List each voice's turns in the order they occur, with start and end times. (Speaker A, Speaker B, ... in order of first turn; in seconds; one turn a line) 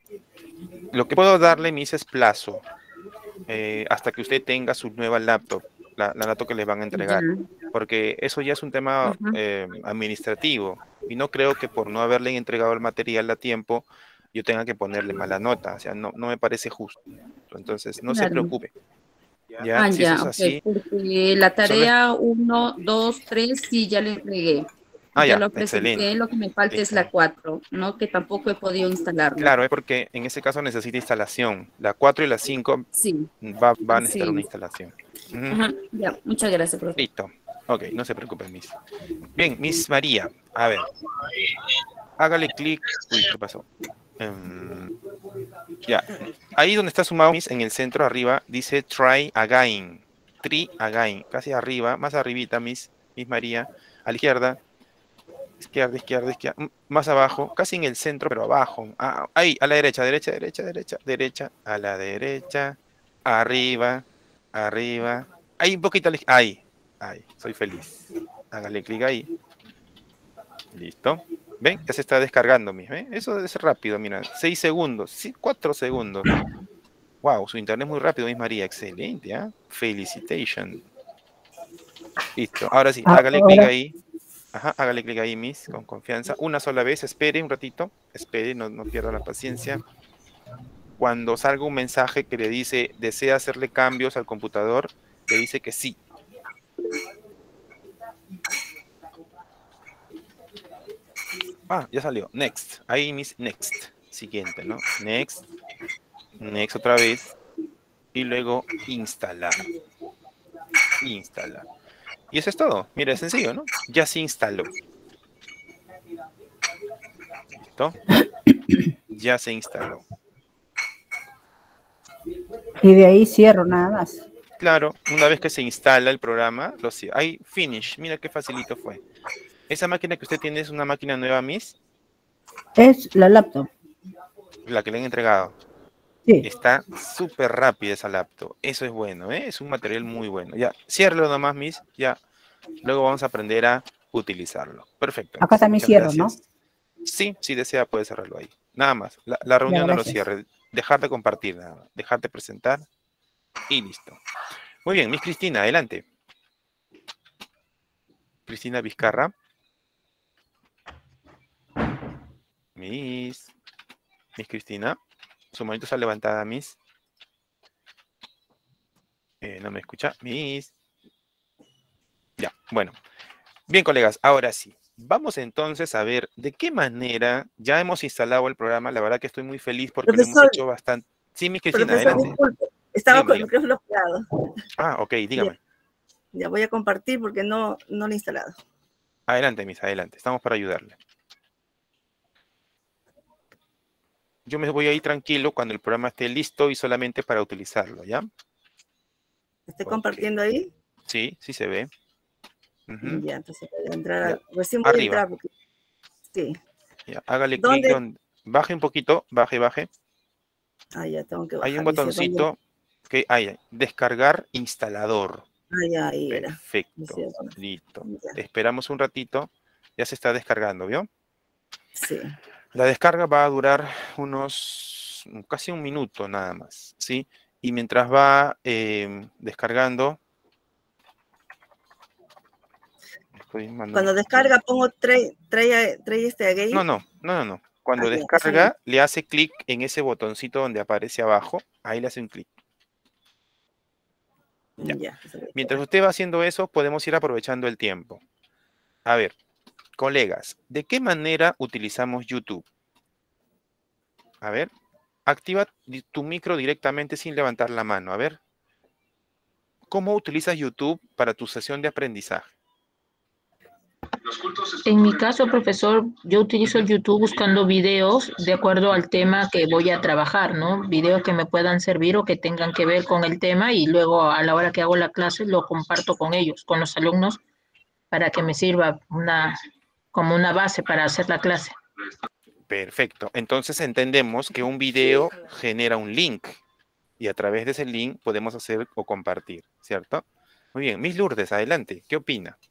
Speaker A: 0.9-2.6
Speaker A: 3.5-18.7
Speaker B: 7.0-7.3
Speaker A: 19.6-20.6
Speaker B: 19.7-24.7
Speaker A: 21.6-21.9
Speaker A: 25.2-26.1
Speaker B: 25.2-29.5
Speaker A: 26.7-27.1
Speaker A: 29.4-32.9
Speaker B: 33.0-33.3
Speaker A: 33.4-35.6
Speaker B: 34.0-34.4
Speaker B: 35.6-37.0
Speaker A: 37.0-38.7
Speaker A: 39.3-40.9
Speaker A: 42.2-43.7
Speaker A: 44.2-44.9
Speaker A: 45.9-54.6
Speaker A: 55.6-69.3
Speaker A: 70.7-76.3
Speaker A: 77.2-80.8
Speaker A: 82.3-84.0
Speaker C: 83.1-83.7
Speaker A: 84.5-89.8
Speaker A: 91.0-96.0
Speaker A: 101.7-105.4
Speaker A: 106.4-107.3
Speaker A: 108.1-109.7
Speaker A: 111.0-111.7
Speaker A: 112.3-114.7
Speaker A: 119.1-120.0
Speaker C: 122.8-124.2
Speaker A: 124.6-129.0
Speaker A: 129.7-131.8
Speaker C: 132.8-133.7
Speaker A: 134.7-135.5
Speaker A: 136.4-142.2
Speaker A: 142.8-146.4
Speaker C: 145.4-146.3
Speaker A: 147.1-152.8
Speaker C: 149.7-150.2
Speaker A: 153.7-154.2
Speaker A: 154.8-156.0
Speaker A: 158.5-159.3
Speaker A: 162.8-163.5
Speaker A: 164.4-165.0
Speaker A: 165.5-166.8
Speaker A: 169.4-170.7
Speaker A: 172.4-173.0
Speaker A: 173.7-182.3
Speaker D: 180.0-180.6
Speaker D: 181.7-184.3
Speaker A: 183.1-183.5
Speaker A: 184.8-185.6
Speaker D: 186.3-188.6
Speaker A: 189.3-190.9
Speaker A: 194.5-198.3
Speaker D: 199.7-200.7
Speaker A: 199.8-200.3
Speaker A: 201.1-201.9
Speaker A: 202.9-203.2
Speaker D: 203.0-205.5
Speaker A: 204.2-205.2
Speaker D: 206.3-206.6
Speaker A: 207.1-209.9
Speaker D: 207.6-208.0
Speaker D: 210.9-212.5
Speaker A: 211.6-212.6
Speaker A: 213.1-215.4
Speaker D: 215.7-218.4
Speaker A: 216.3-221.1
Speaker D: 222.0-222.4
Speaker A: 222.7-230.2
Speaker A: 233.4-234.5
Speaker D: 233.9-236.9
Speaker A: 236.7-242.5
Speaker D: 238.0-238.7
Speaker D: 244.8-245.8
Speaker A: 245.6-248.2
Speaker A: 249.1-249.3
Speaker A: 250.0-252.6
Speaker A: 254.4-254.7
Speaker A: 255.3-258.4
Speaker A: 259.9-262.5
Speaker E: 264.5-277.4
Speaker E: 278.1-279.6
Speaker E: 280.1-281.8
Speaker A: 282.7-286.6
Speaker A: 287.2-292.6